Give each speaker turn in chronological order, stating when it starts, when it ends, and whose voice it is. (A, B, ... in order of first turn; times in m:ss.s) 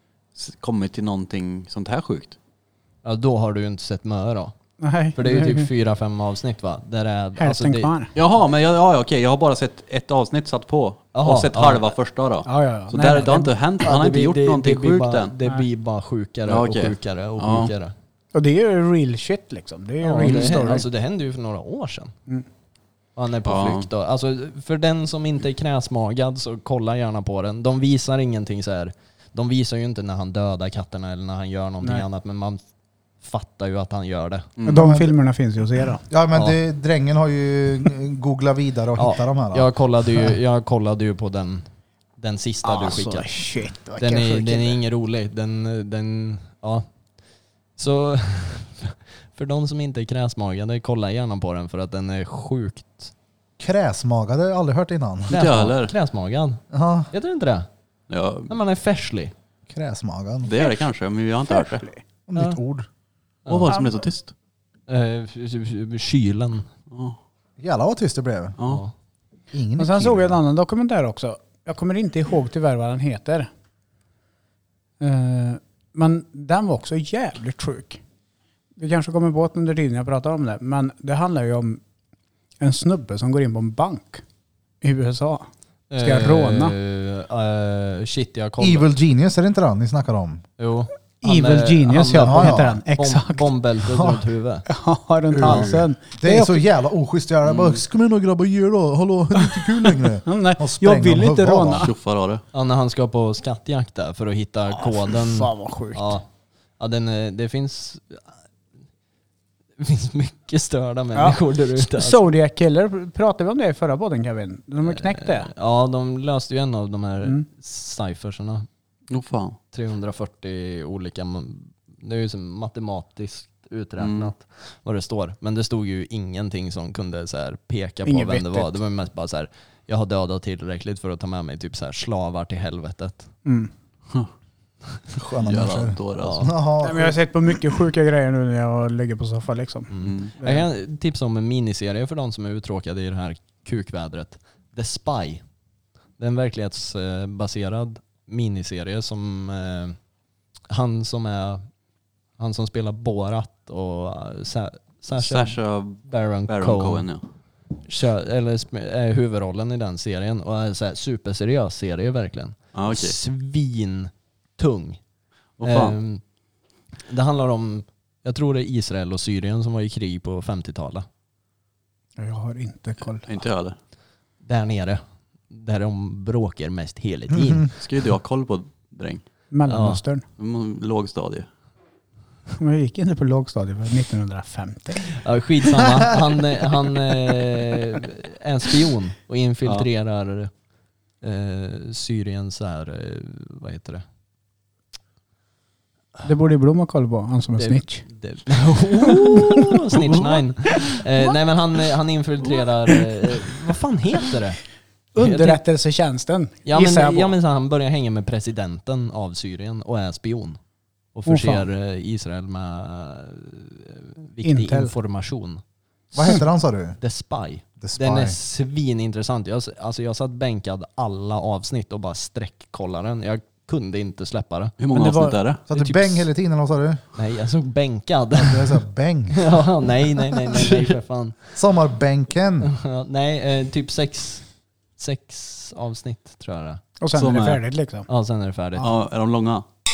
0:00.4-0:02.4 A
0:03.0-0:04.6 B
0:04.8-0:05.7 C
0:05.2-0:07.9 B
0:07.4-0:08.1 C
0:08.2-0:15.3 A
0:11.1-0:11.9 B
0:12.5-0:13.5 C
0:13.8-0:17.9 B
0:16.5-0:17.7 A
0:18.3-0:20.9 C
0:20.0-0:22.1 B
0:20.2-0:20.8 A
0:23.2-0:32.6 B
0:23.5-0:23.9 A
0:33.2-0:34.5 B
0:34.6-0:34.9 A
0:34.7-0:36.0 C
0:34.7-0:35.1 D
0:36.1-0:39.7 D
0:36.3-0:36.6 B
0:39.0-0:43.4 B
0:42.6-0:44.8 C
0:44.0-0:46.9 B
0:47.8-0:53.1 B
0:53.6-0:55.4 D
0:55.3-0:57.7 B
0:55.3-0:55.9 A
0:56.7-0:57.1 D
0:58.1-0:58.5 A
0:58.5-0:59.3 B
0:59.7-1:00.5 D
1:00.4-1:01.9 A
1:00.6-1:00.9 C
1:01.5-1:02.0 C
1:02.3-1:02.9 D
1:03.5-1:03.8 B
1:03.5-1:04.3 A
1:03.7-1:04.0 C
1:04.9-1:06.7 B
1:06.9-1:07.2 A
1:07.6-1:08.6 D
1:08.6-1:08.8 A
1:08.6-1:08.9 B
1:09.5-1:10.4 D
1:09.8-1:13.5 C
1:15.0-1:18.0 C
1:18.8-1:21.8 C
1:22.6-1:24.2 C
1:24.8-1:25.5 C
1:25.9-1:28.9 B
1:26.0-1:26.8 C
1:28.6-1:30.4 D
1:30.6-1:34.7 B
1:31.2-1:33.5 C
1:32.2-1:32.8 D
1:33.8-1:34.2 D
1:34.7-1:36.7 C
1:35.4-1:35.7 A
1:35.4-1:41.9 D
1:37.4-1:37.8 A
1:39.4-1:41.9 C
1:41.7-1:42.4 A
1:42.5-1:46.3 B
1:44.8-1:46.2 C
1:46.8-1:48.3 B
1:49.8-1:52.2 B
1:51.2-1:55.5 C
1:54.8-1:58.7 B
1:59.1-1:59.6 A
1:59.7-2:13.3 B
2:04.0-2:04.3 A
2:08.1-2:08.8 C
2:13.4-2:13.7 C
2:15.2-2:17.2 D
2:15.4-2:16.5 A
2:16.2-2:16.5 B
2:16.8-2:20.7 C
2:19.9-2:25.4 B
2:20.0-2:20.3 A
2:26.2-2:30.0 B
2:30.7-2:31.6 B
2:32.4-2:37.1 B
2:35.2-2:37.2 A
2:37.9-2:45.0 B
2:42.7-2:43.2 A
2:45.6-2:46.0 A
2:45.6-2:46.2 B
2:47.1-2:51.1 B
2:52.2-2:53.3 C
2:53.2-2:53.8 A
2:54.4-2:57.7 B
2:57.4-2:57.6 D
2:57.8-2:59.2 A
2:59.5-3:00.2 C
2:59.7-3:00.0 B
3:00.4-3:01.5 A
3:02.6-3:05.2 C
3:05.1-3:10.5 B
3:11.2-3:14.0 B
3:16.2-3:18.0 C
3:17.6-3:24.6 B
3:19.1-3:19.8 C
3:25.2-3:27.4 C
3:25.2-3:25.6 B
3:26.7-3:30.6 B
3:31.1-3:35.6 B
3:31.3-3:31.7 C
3:34.4-3:34.9 C
3:36.1-3:37.0 D
3:37.0-3:44.7 B
3:37.8-3:38.4 D
3:44.8-3:45.6 A
3:44.9-3:45.4 C
3:45.7-3:47.0 D
3:45.7-3:46.3 B
3:47.2-3:48.8 B
3:48.4-3:49.6 D
3:49.3-3:51.4 B
3:50.5-3:50.9 A
3:51.6-3:52.7 D
3:52.6-3:54.4 B
3:55.0-3:56.8 B
3:57.0-3:58.1 C
3:57.2-3:57.6 A
3:58.1-3:58.9 B
3:58.8-3:59.6 A